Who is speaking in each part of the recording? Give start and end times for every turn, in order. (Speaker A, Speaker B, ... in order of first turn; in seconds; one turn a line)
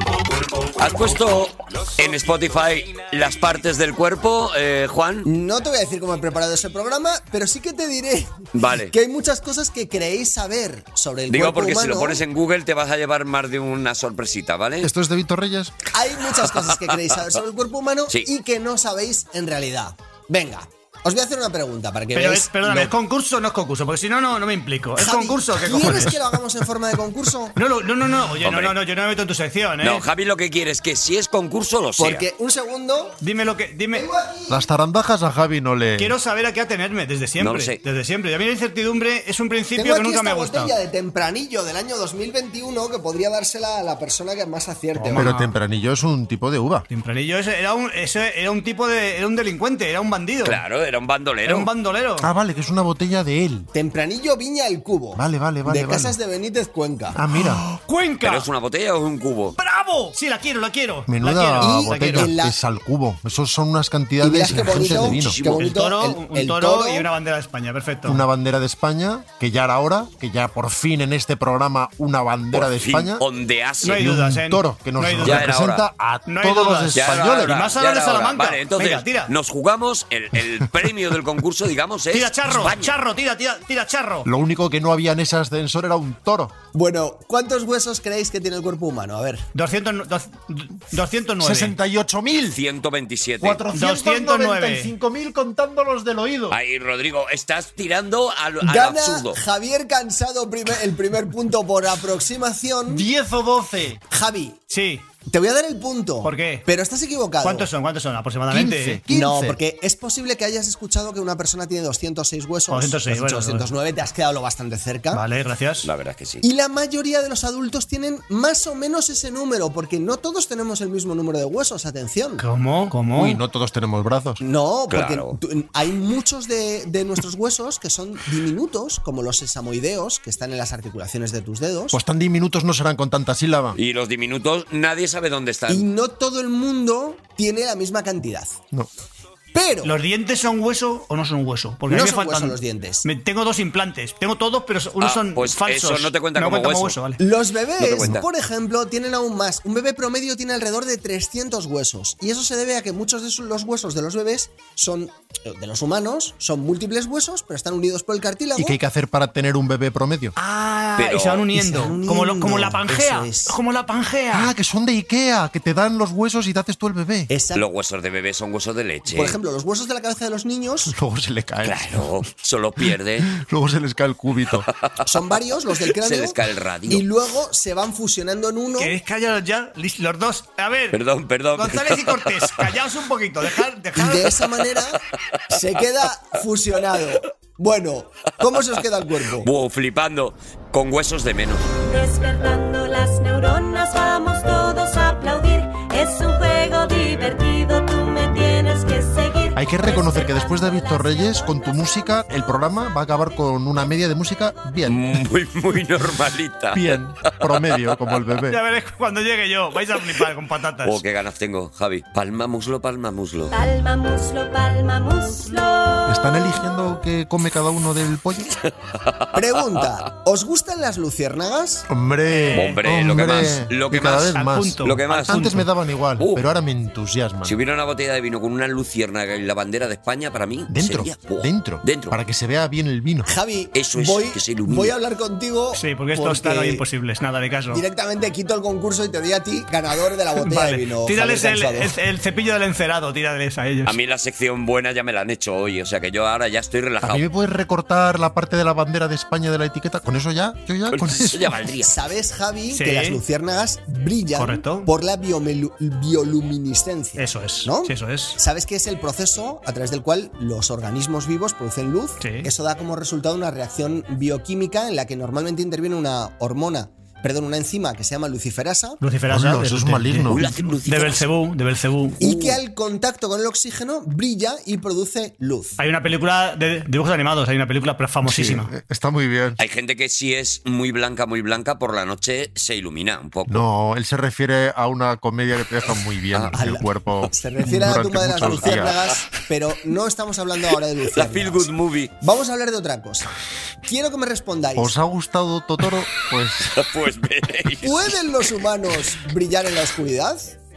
Speaker A: 0.8-5.3
Speaker B: 5.3-12.2
Speaker A: 8.5-8.9
Speaker A: 11.3-14.9
Speaker C: 14.8-15.8
Speaker B: 15.9-22.9
Speaker A: 16.5-17.0
Speaker D: 22.1-26.2
Speaker B: 25.0-27.6
Speaker D: 27.6-30.1
Speaker A: 28.4-28.8
Speaker A: 29.8-32.3
Speaker B: 32.0-33.2
Speaker D: 33.2-34.1
Speaker B: 33.9-34.6
Speaker C: 34.5-36.2
Speaker D: 36.0-40.7
Speaker A: 37.4-37.8
Speaker B: 39.8-45.4
Speaker D: 45.0-45.6
Speaker C: 45.2-46.9
Speaker D: 46.9-50.6
Speaker A: 50.4-51.7
Speaker D: 51.5-52.3
Speaker C: 52.2-53.7
Speaker B: 53.7-57.2
Speaker C: 55.2-56.2
Speaker C: 57.1-57.6
Speaker D: 57.3-58.5
Speaker A: 58.2-59.6
Speaker D: 59.6-62.3
Speaker C: 61.1-65.4
Speaker B: 61.6-62.6
Speaker B: 64.2-67.1
Speaker A: 64.5-65.6
Speaker D: 65.6-68.3
Speaker C: 68.0-73.2
Speaker A: 72.5-74.0
Speaker D: 73.8-75.5
Speaker C: 74.0-77.6
Speaker A: 75.2-75.8
Speaker D: 76.3-79.3
Speaker A: 76.9-83.0
Speaker D: 82.1-84.3
Speaker C: 84.2-86.5
Speaker B: 86.7-89.5
Speaker D: 89.5-91.8
Speaker C: 91.4-92.6
Speaker A: 92.5-93.6
Speaker C: 93.4-96.6
Speaker D: 93.7-94.9
Speaker A: 96.5-99.4
Speaker B: 98.6-103.1
Speaker C: 102.9-104.0
Speaker B: 104.1-104.6
Speaker D: 104.7-105.1
Speaker B: 105.3-107.7
Speaker D: 106.2-106.7
Speaker D: 107.4-109.0
Speaker C: 108.5-109.6
Speaker B: 109.1-115.2
Speaker D: 112.7-113.7
Speaker D: 115.1-115.9
Speaker A: 115.8-116.4
Speaker B: 116.4-122.5
Speaker D: 122.4-123.4
Speaker C: 123.1-124.4
Speaker B: 124.4-132.0
Speaker A: 124.9-125.4
Speaker C: 131.9-133.8
Speaker A: 133.8-135.9
Speaker B: 135.7-138.6
Speaker B: 139.5-139.9
Speaker D: 139.8-147.2
Speaker B: 141.9-143.1
Speaker A: 145.0-147.0
Speaker B: 147.2-158.8
Speaker A: 147.8-148.2
Speaker C: 158.6-160.3
Speaker D: 160.4-164.5
Speaker A: 161.0-161.5
Speaker B: 161.5-163.6
Speaker C: 164.3-167.3
Speaker B: 167.3-167.7
Speaker A: 167.6-169.4
Speaker B: 169.1-170.9
Speaker C: 170.9-172.2
Speaker A: 171.6-173.3
Speaker C: 172.9-174.7
Speaker A: 174.6-175.0
Speaker B: 175.0-179.0
Speaker A: 175.8-177.1
Speaker D: 178.8-181.0
Speaker A: 180.9-182.7
Speaker D: 181.5-184.5
Speaker B: 183.9-189.5
Speaker A: 189.4-191.7
Speaker E: 191.8-202.2
Speaker C: 199.6-205.2
Speaker A: 204.8-208.2
Speaker C: 206.7-208.6
Speaker D: 208.5-211.0
Speaker A: 210.8-213.6
Speaker E: 213.5-216.6
Speaker C: 216.1-218.6
Speaker A: 219.1-219.8
Speaker B: 219.3-221.9
Speaker C: 221.9-227.6
Speaker D: 222.3-222.8
Speaker A: 222.5-225.5
Speaker D: 224.3-225.7
Speaker A: 226.2-226.4
Speaker A: 227.4-232.2
Speaker C: 230.7-233.3
Speaker B: 233.3-236.8
Speaker A: 233.7-235.0
Speaker D: 235.7-237.8
Speaker B: 237.7-242.0
Speaker D: 240.4-244.0
Speaker A: 243.9-247.2
Speaker C: 247.0-251.6
Speaker A: 250.9-251.9
Speaker B: 251.8-269.0
Speaker D: 252.7-253.2
Speaker D: 254.3-254.9
Speaker D: 257.2-258.4
Speaker D: 262.2-262.5
Speaker D: 269.0-272.2
Speaker C: 269.3-270.5
Speaker A: 270.3-271.3
Speaker A: 272.2-272.6
Speaker B: 272.2-275.8
Speaker D: 275.8-278.7
Speaker C: 278.2-279.6
Speaker A: 279.6-283.6
Speaker C: 283.5-289.0
Speaker B: 286.6-293.3
Speaker A: 288.5-288.9
Speaker A: 291.1-292.1
Speaker B: 293.9-294.9
Speaker C: 294.8-296.8
Speaker A: 296.6-298.3
Speaker B: 297.8-300.6